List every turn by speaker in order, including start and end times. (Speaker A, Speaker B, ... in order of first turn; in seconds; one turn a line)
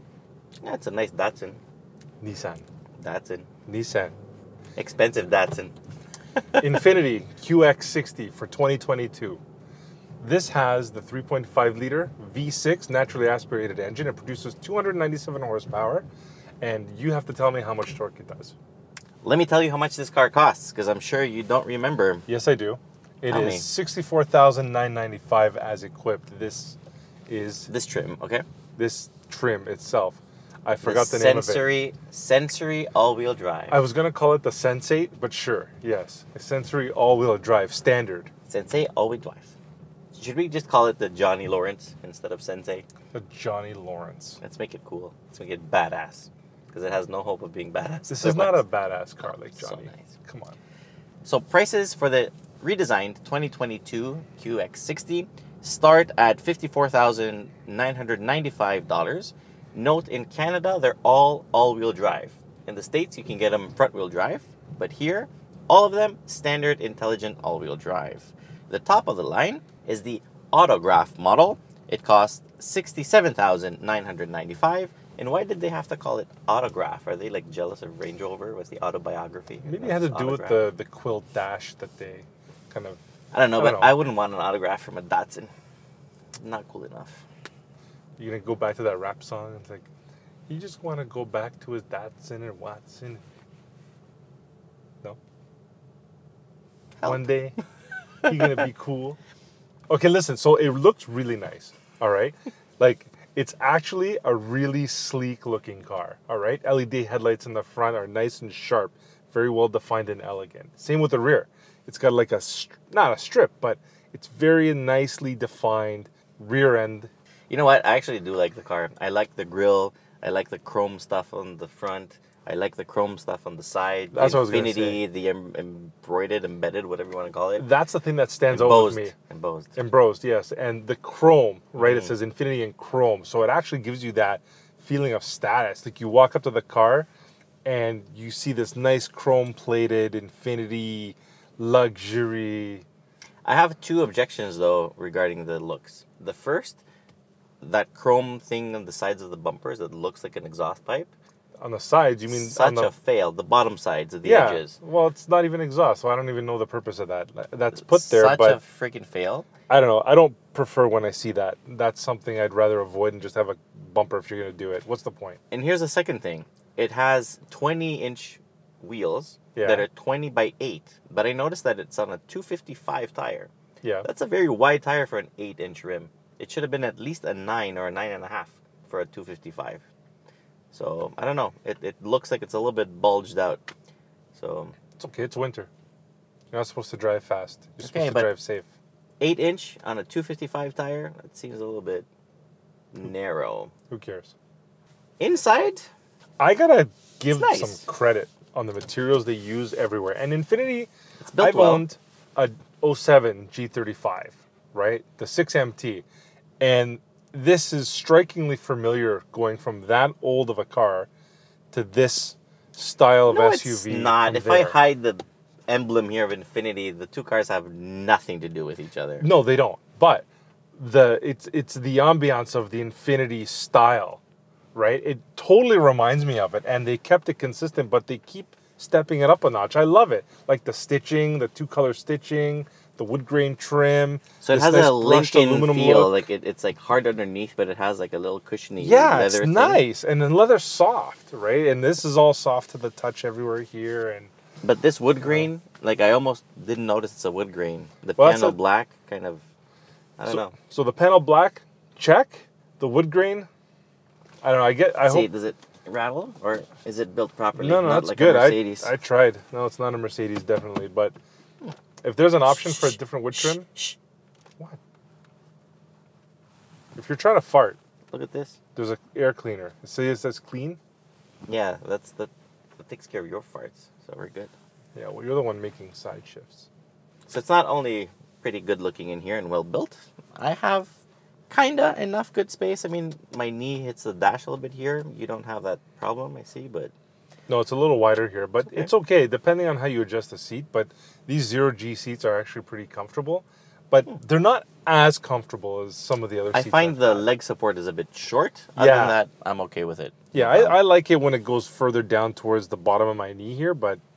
Speaker A: 0.6-1.6
Speaker B: 2.2-2.6
Speaker A: 3.0-3.5
Speaker B: 3.7-4.1
Speaker A: 4.8-5.7
Speaker A: 6.6-6.9
Speaker B: 6.6-9.4
Speaker B: 10.2-16.1
Speaker B: 16.6-18.6
Speaker A: 19.2-22.2
Speaker B: 22.3-26.8
Speaker A: 23.3-23.7
Speaker B: 27.3-27.7
Speaker A: 27.7-28.4
Speaker B: 28.8-31.8
Speaker A: 30.8-33.8
Speaker B: 33.7-38.3
Speaker A: 38.5-39.5
Speaker A: 40.1-42.9
Speaker B: 43.1-44.4
Speaker A: 44.4-48.6
Speaker B: 48.1-50.6
Speaker A: 49.2-50.0
Speaker A: 51.2-80.6
Speaker B: 79.6-83.0
Speaker A: 83.3-85.5
Speaker B: 83.6-84.0
Speaker A: 86.4-87.2
Speaker B: 88.2-89.9
Speaker B: 90.5-93.2
Speaker A: 97.0-97.2
Speaker B: 97.0-97.6
Speaker B: 98.3-99.2
Speaker B: 99.9-117.1
Speaker A: 117.5-127.7
Speaker B: 124.1-125.0
Speaker B: 127.6-129.2
Speaker A: 128.5-129.8
Speaker B: 129.8-137.1
Speaker A: 131.8-132.1
Speaker B: 137.7-142.8
Speaker A: 143.4-146.8
Speaker A: 147.6-151.1
Speaker B: 151.6-152.9
Speaker A: 152.3-154.8
Speaker B: 154.2-158.6
Speaker A: 157.7-159.5
Speaker B: 159.7-165.4
Speaker A: 165.5-173.5
Speaker B: 169.5-169.9
Speaker B: 173.8-174.1
Speaker A: 174.0-179.8
Speaker A: 180.7-183.6
Speaker A: 184.3-184.8
Speaker B: 184.9-185.7
Speaker B: 186.5-188.7
Speaker A: 187.9-188.3
Speaker A: 189.2-192.1
Speaker A: 192.9-193.7
Speaker B: 193.9-194.3
Speaker A: 195.2-195.8
Speaker B: 196.4-206.1
Speaker A: 197.3-197.8
Speaker A: 201.2-201.9
Speaker B: 206.6-211.1
Speaker B: 211.7-214.8
Speaker A: 213.3-219.3
Speaker B: 219.2-224.2
Speaker B: 224.7-236.3
Speaker A: 234.4-239.9
Speaker B: 238.8-244.3
Speaker A: 244.6-249.4
Speaker B: 245.2-245.5
Speaker B: 248.2-248.6
Speaker A: 250.2-250.6
Speaker B: 250.3-253.5
Speaker B: 254.4-255.3
Speaker A: 255.0-258.9
Speaker B: 257.6-261.2
Speaker B: 262.0-263.7
Speaker A: 262.5-264.0
Speaker B: 266.9-267.8
Speaker A: 268.1-268.6
Speaker B: 268.7-270.8
Speaker A: 271.5-274.5
Speaker B: 275.0-276.7
Speaker A: 277.3-280.9
Speaker A: 281.5-286.9
Speaker B: 287.5-297.3
Speaker A: 296.5-300.8
Speaker B: 298.8-299.2
Speaker B: 300.3-304.0